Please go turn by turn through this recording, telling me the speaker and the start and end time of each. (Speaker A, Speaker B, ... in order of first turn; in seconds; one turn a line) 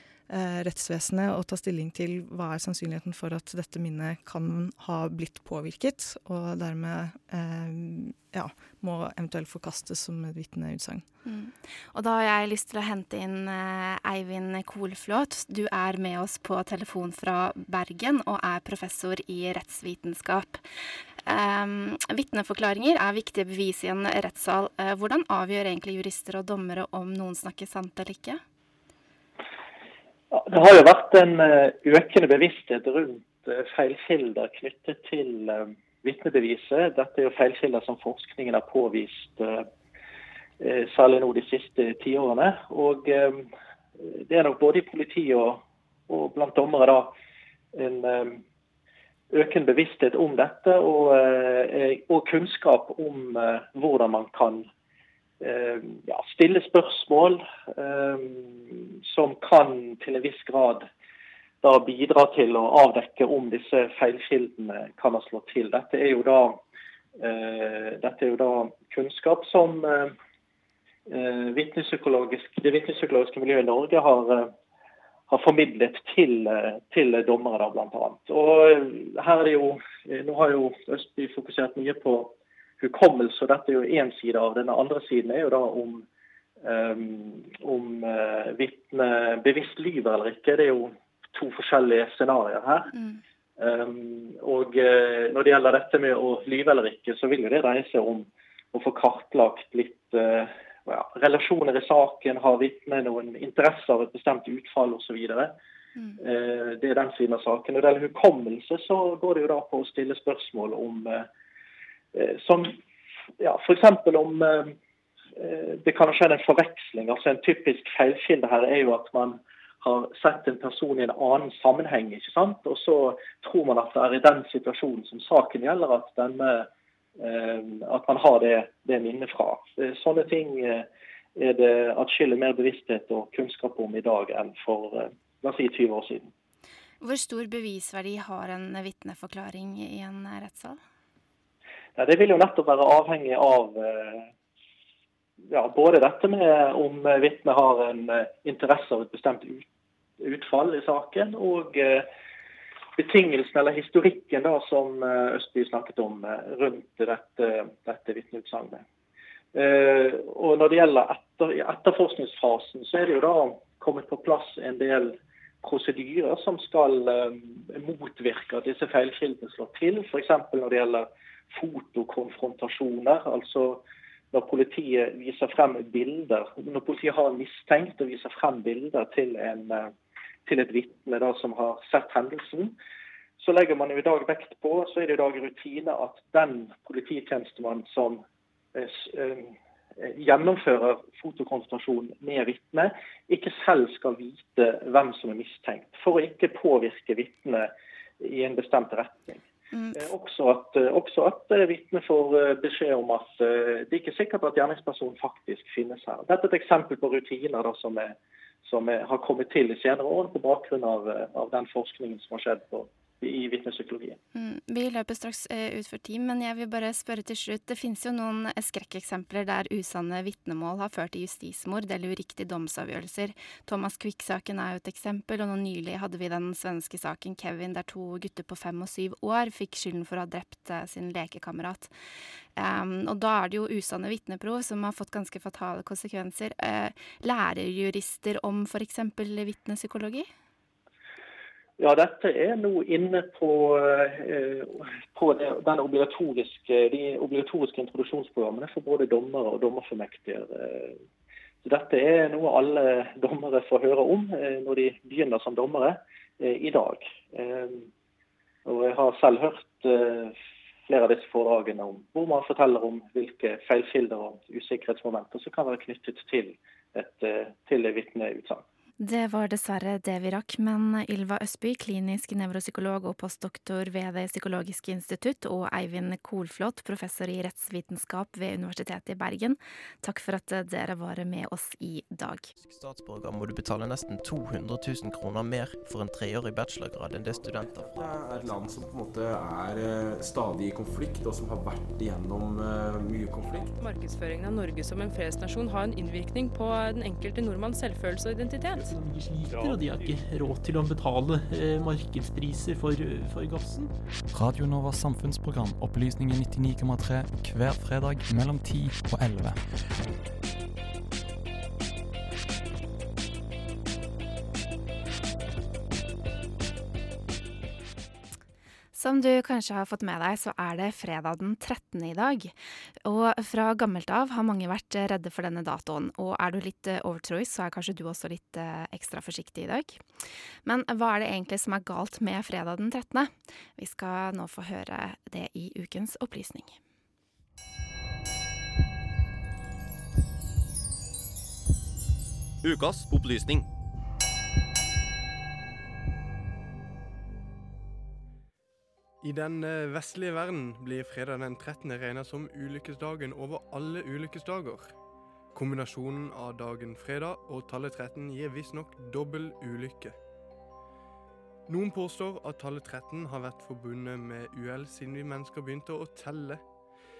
Speaker A: 0.3-11.0
Speaker B: 11.2-20.6
Speaker B: 21.2-28.4
Speaker C: 30.3-39.7
Speaker C: 40.6-47.1
Speaker C: 47.7-48.4
Speaker C: 49.3-54.7
Speaker C: 55.4-60.9
Speaker C: 61.6-66.6
Speaker C: 67.2-70.1
Speaker C: 71.1-74.5
Speaker C: 75.3-86.0
Speaker C: 86.6-92.9
Speaker B: 92.9-93.2
Speaker C: 93.6-105.5
Speaker C: 106.2-111.3
Speaker C: 112.1-112.8
Speaker C: 113.4-114.7
Speaker C: 115.3-136.3
Speaker B: 137.0-140.8
Speaker C: 141.9-144.3
Speaker C: 145.5-149.7
Speaker C: 150.2-152.1
Speaker C: 153.0-158.8
Speaker C: 159.5-179.9
Speaker C: 180.4-182.8
Speaker C: 183.4-188.2
Speaker C: 188.7-199.4
Speaker C: 199.9-214.2
Speaker B: 214.3-231.9
Speaker B: 232.6-240.3
Speaker C: 241.8-251.0
Speaker C: 251.6-257.9
Speaker C: 258.6-268.6
Speaker B: 269.0-282.5
Speaker D: 282.6-288.2
Speaker E: 287.3-293.7
Speaker F: 293.6-298.9
Speaker G: 298.9-303.9
Speaker H: 304.3-309.6
Speaker B: 318.9-322.5
Speaker B: 323.0-330.0
Speaker B: 330.6-336.8
Speaker H: 342.6-343.6
Speaker I: 349.2-354.9
Speaker I: 355.5-360.1
Speaker I: 361.7-366.6